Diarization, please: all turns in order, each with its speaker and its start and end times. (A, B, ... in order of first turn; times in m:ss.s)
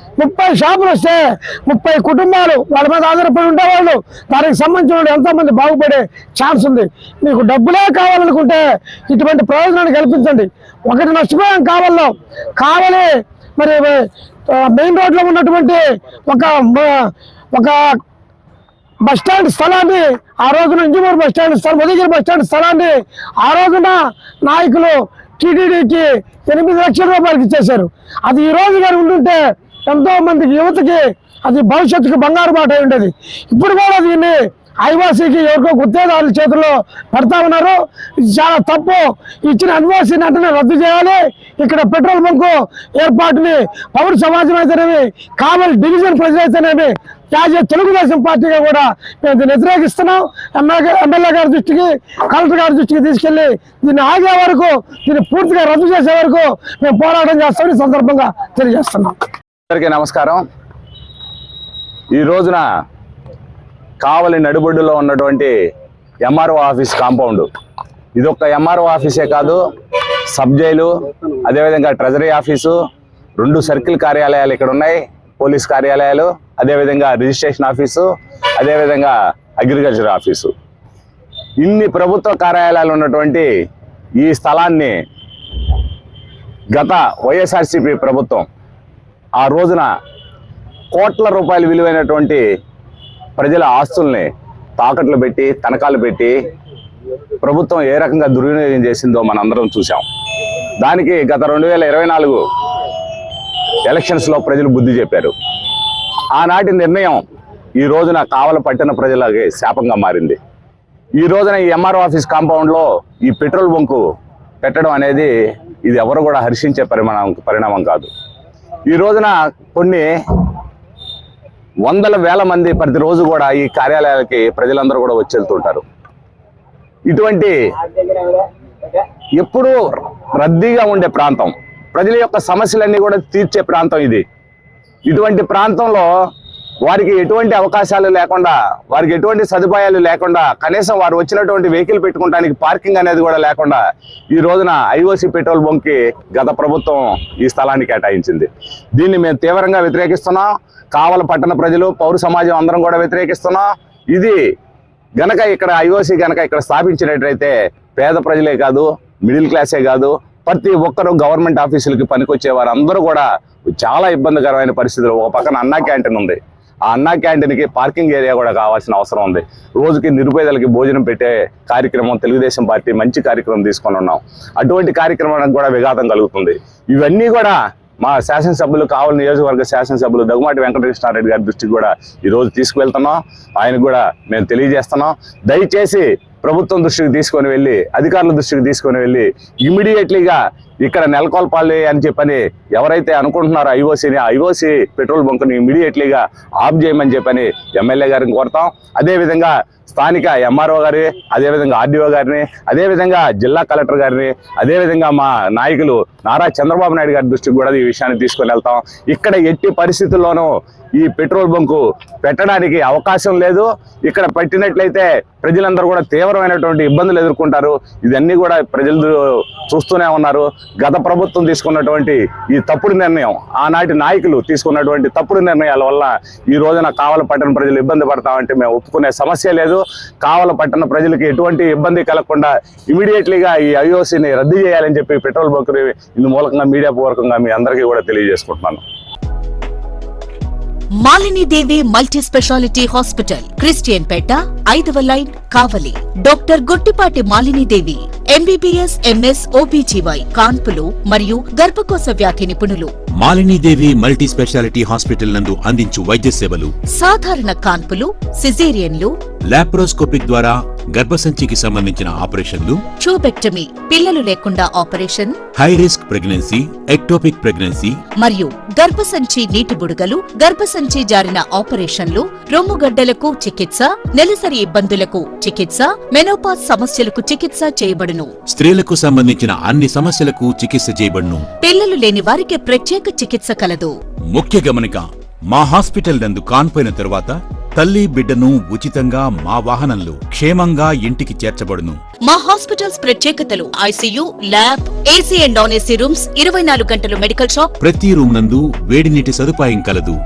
0:00.2-0:17.8 A
0:19.0-0:59.2 A
0:59.7-1:00.4 B
1:02.1-1:02.6 B
1:04.0-1:05.5 B
1:06.2-1:07.5 B
1:08.2-1:09.6 B
1:10.3-1:10.9 B
1:11.4-1:12.8 B
1:13.4-1:20.5 B
1:21.6-1:23.5 B
1:24.2-1:24.9 B
1:26.7-1:28.4 B
1:29.4-1:29.9 B
1:30.9-1:32.4 B
1:33.4-1:36.3 B
1:37.4-1:40.0 B
1:40.8-1:42.4 B
1:43.8-1:45.3 B
1:46.4-1:47.2 B
1:47.8-1:50.4 B
1:51.2-1:54.0 B
1:54.6-1:55.3 B
1:55.8-1:58.1 B
1:58.9-2:00.1 B
2:01.8-2:05.8 B
2:07.1-2:07.5 B
2:09.4-2:09.8 B
2:10.4-2:14.2 B
2:15.1-2:16.1 B
2:16.8-2:23.8 B
2:24.3-2:34.4 B
2:35.2-3:58.8 B
4:01.0-4:12.9 C
4:13.2-4:16.7 D
4:17.0-4:19.1 C
4:19.5-4:22.8 D
4:23.0-4:25.4 C
4:25.6-4:28.0 D
4:28.2-4:38.3 C
4:38.5-4:41.5 D
4:41.6-4:44.0 C
4:44.3-4:52.0 D
4:52.2-4:57.7 C
4:57.8-5:00.2 D